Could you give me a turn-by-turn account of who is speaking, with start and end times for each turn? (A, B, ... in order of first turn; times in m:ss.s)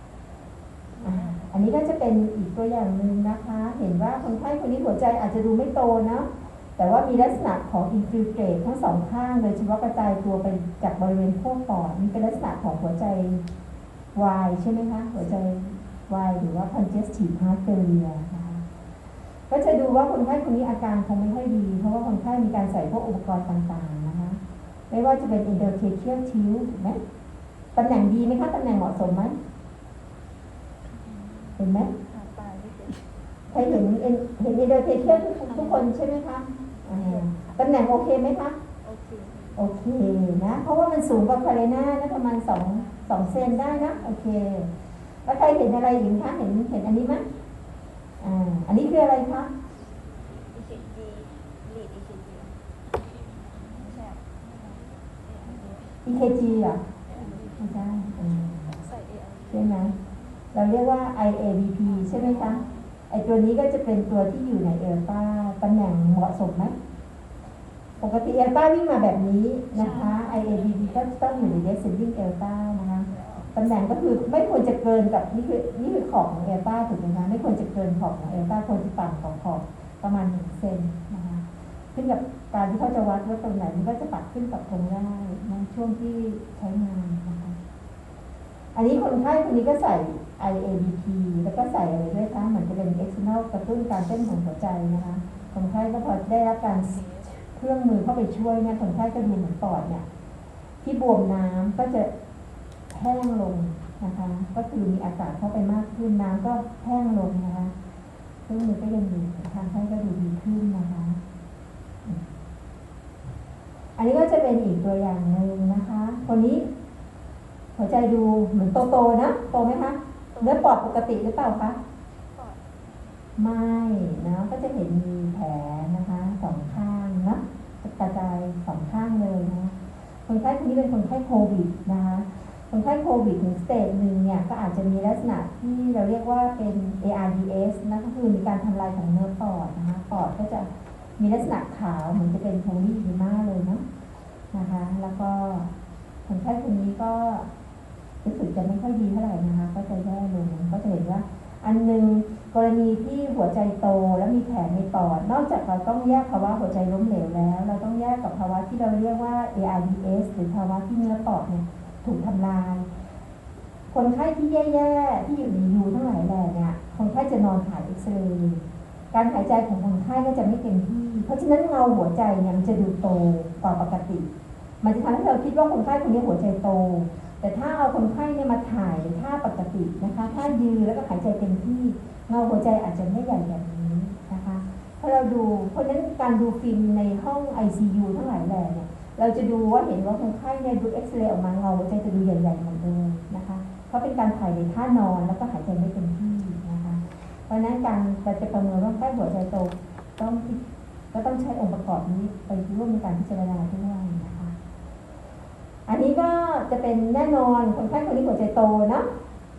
0:01.0-0:01.5 A
0:01.0-0:13.4 B
0:14.1-0:18.6 B
0:19.5-0:24.4 B
0:24.9-0:27.0 B
0:27.7-0:29.4 B
0:30.8-0:33.1 A
0:31.6-0:31.9 B
0:33.5-0:38.6 B
0:35.0-0:35.9 A
0:36.9-0:37.6 A
0:38.8-0:39.6 A
0:39.6-0:44.7 B
0:42.7-0:44.2 A
0:45.2-0:47.2 B
0:48.2-0:49.5 B
0:50.5-0:52.6 A
0:53.6-0:56.0 A
0:56.0-0:56.8 B
0:57.0-0:57.7 A
0:57.6-0:58.7 B
0:58.6-0:59.7 A
0:59.5-0:59.9 B
1:00.5-1:06.7 B
1:01.9-1:02.8 A
1:08.0-1:27.6 B
1:09.8-1:11.1 A
1:13.1-1:13.5 A
1:28.7-1:40.0 B
1:35.4-1:35.7 A
1:36.9-1:37.3 A
1:40.8-1:42.1 B
1:42.9-1:47.7 B
1:48.5-1:51.2 B
1:54.0-1:56.7 B
1:57.8-2:01.8 B
2:00.3-2:00.8 A
2:02.3-2:02.9 A
2:03.4-2:23.8 B
2:24.5-2:25.7 B
2:26.2-2:27.5 B
2:28.2-2:42.9 B
2:43.9-2:48.6 B
2:49.1-2:54.3 B
2:54.8-3:20.6 B
3:21.1-3:24.5 B
3:25.9-3:29.0 B